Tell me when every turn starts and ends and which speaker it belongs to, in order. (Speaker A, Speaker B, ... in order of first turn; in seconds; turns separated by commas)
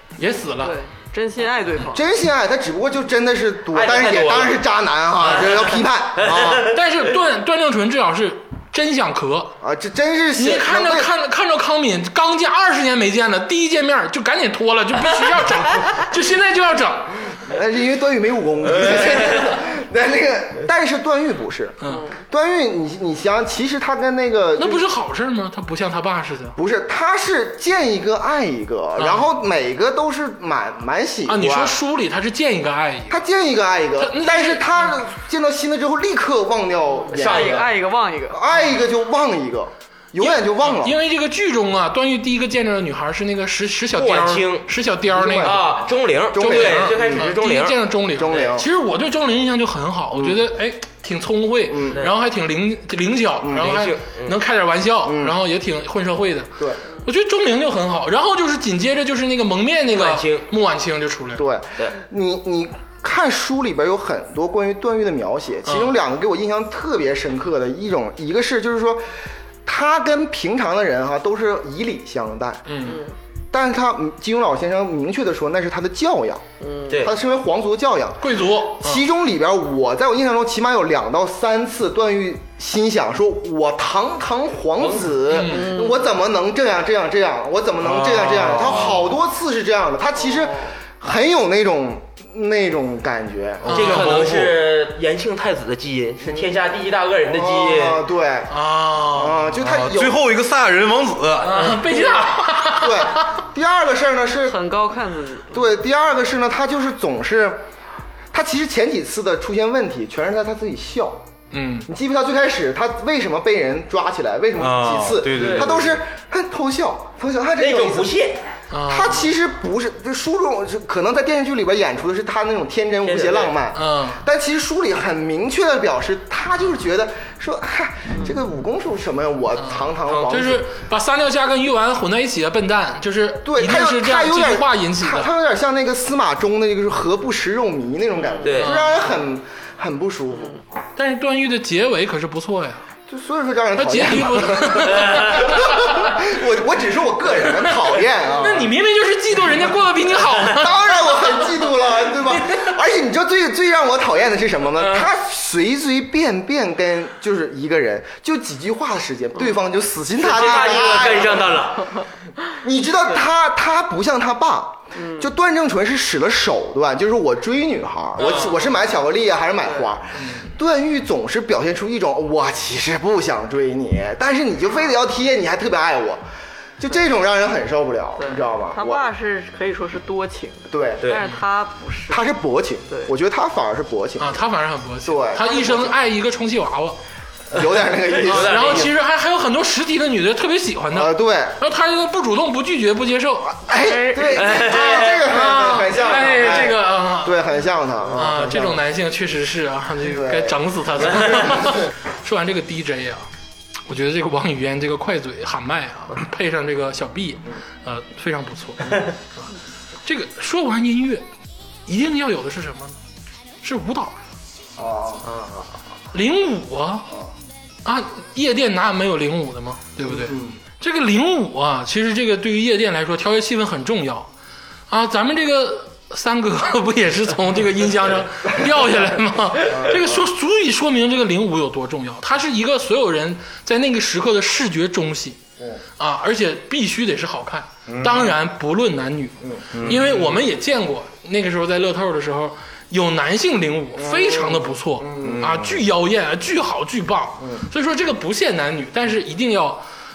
Speaker A: 0.2-0.8, Speaker B: 0.6-2.0, Speaker C: 1.9-6.7, Speaker D: 3.7-4.6, Speaker D: 5.4-6.7, Speaker A: 6.7-9.5, Speaker C: 9.6-11.1, Speaker A: 10.4-17.1, Speaker C: 17.4-24.9, Speaker D: 18.8-19.4, Speaker B: 21.9-22.1, Speaker A: 24.6-26.6, Speaker C: 26.6-31.8, Speaker A: 29.0-29.2, Speaker A: 31.3-33.2, Speaker C: 33.1-37.7, Speaker A: 34.0-34.7, Speaker B: 37.1-38.4, Speaker D: 37.1-37.7, Speaker C: 38.3-41.0, Speaker A: 40.2-45.6, Speaker D: 44.0-44.7, Speaker C: 45.1-45.7, Speaker D: 45.4-47.8, Speaker C: 46.3-47.3, Speaker A: 46.4-56.5, Speaker C: 48.1-48.7, Speaker C: 50.1-50.4, Speaker C: 51.7-52.0, Speaker C: 53.4-53.7, Speaker D: 53.6-54.4, Speaker C: 55.0-55.4, Speaker A: 57.0-61.5, Speaker D: 59.9-60.5, Speaker C: 61.4-69.0, Speaker A: 65.7-66.0, Speaker C: 69.7-72.9, Speaker A: 72.7-73.0, Speaker B: 72.8-73.2, Speaker C: 73.5-76.4, Speaker B: 76.6-77.0, Speaker D: 76.9-77.2, Speaker C: 77.0-94.0, Speaker A: 78.2-79.0, Speaker D: 84.8-85.2, Speaker A: 85.3-85.7, Speaker B: 85.4-86.1, Speaker A: 88.0-88.9, Speaker E: 88.5-89.0, Speaker B: 90.3-90.6, Speaker A: 93.7-94.1, Speaker E: 93.7-94.6, Speaker D: 93.7-98.0, Speaker C: 97.3-100.2, Speaker A: 98.5-99.6, Speaker E: 99.6-101.8, Speaker A: 101.4-103.4, Speaker C: 102.7-104.6, Speaker B: 104.5-105.7, Speaker C: 105.5-107.6, Speaker C: 108.3-111.2, Speaker A: 111.5-111.9, Speaker C: 111.9-118.1, Speaker E: 114.6-116.0, Speaker D: 115.3-115.7, Speaker D: 117.6-118.4, Speaker A: 118.7-119.3, Speaker C: 118.9-130.7, Speaker D: 123.0-123.5, Speaker A: 123.7-124.2, Speaker A: 129.6-135.3, Speaker D: 130.1-130.4, Speaker C: 133.4-140.6, Speaker D: 138.4-138.8, Speaker A: 138.6-138.9, Speaker A: 141.0-142.8, Speaker C: 143.1-148.7, Speaker A: 143.8-146.2, Speaker A: 147.5-151.5, Speaker C: 150.3-161.6, Speaker A: 152.3-152.7, Speaker A: 154.8-155.1, Speaker D: 160.2-162.0, Speaker C: 162.6-176.2, Speaker B: 164.9-165.3, Speaker A: 168.2-168.7, Speaker A: 170.2-170.5, Speaker C: 176.8-179.1, Speaker B: 178.2-182.3, Speaker C: 180.7-181.1, Speaker D: 181.0-181.3, Speaker C: 182.1-184.4, Speaker A: 184.2-187.0, Speaker C: 185.0-186.0, Speaker C: 187.5-188.9, Speaker D: 188.1-188.9, Speaker A: 188.3-193.7, Speaker C: 190.9-191.6, Speaker C: 193.6-198.8, Speaker A: 194.3-197.4, Speaker D: 194.4-195.2, Speaker A: 198.1-203.3, Speaker C: 200.0-200.6, Speaker A: 203.9-209.1, Speaker A: 210.1-211.2, Speaker A: 211.9-212.9, Speaker A: 213.6-214.2, Speaker C: 214.8-215.3, Speaker D: 215.3-215.6, Speaker A: 216.1-217.1, Speaker A: 217.8-224.3, Speaker C: 220.1-220.6, Speaker A: 224.9-235.4, Speaker C: 229.7-230.1, Speaker A: 236.0-249.8, Speaker E: 237.9-238.3, Speaker C: 239.4-239.9, Speaker E: 239.7-240.4, Speaker C: 244.0-245.4, Speaker E: 245.2-245.8